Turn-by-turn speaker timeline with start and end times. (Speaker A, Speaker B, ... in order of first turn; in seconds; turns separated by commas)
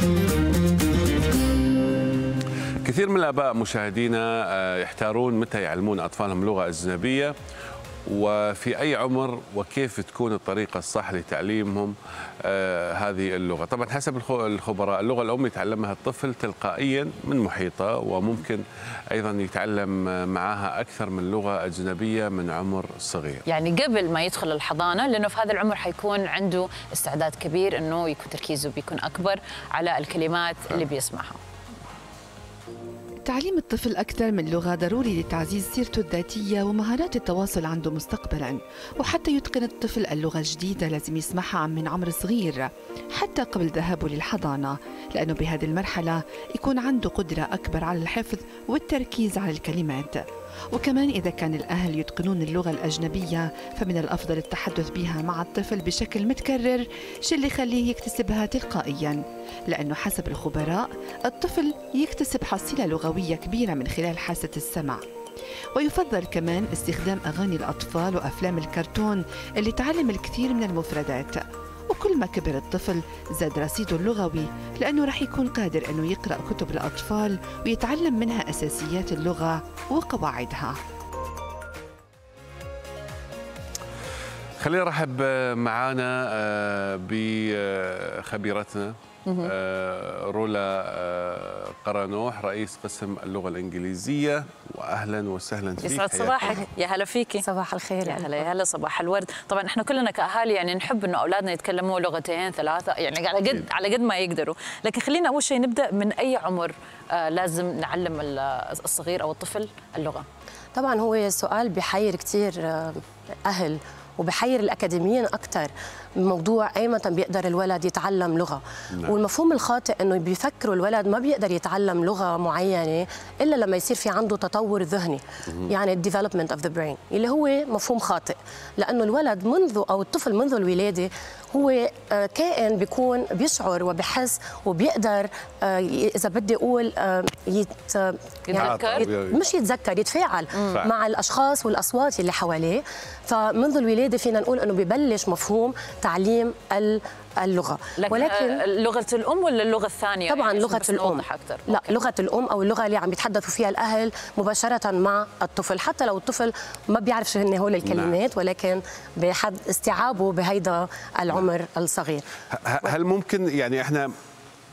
Speaker A: 2.8-7.3, Speaker A: 8.1-23.4, Speaker B: 23.5-31.4, Speaker C: 33.2-65.0, Speaker C: 65.8-80.8, Speaker A: 84.6-96.6, Speaker B: 89.3-89.5, Speaker B: 95.8-97.5, Speaker D: 97.4-98.4, Speaker B: 98.0-110.2, Speaker D: 110.8-148.6, Speaker B: 138.5-139.1, Speaker A: 138.5-139.4, Speaker B: 148.0-152.0, Speaker D: 150.3-162.3, Speaker A: 157.8-158.2, Speaker A: 162.5-164.1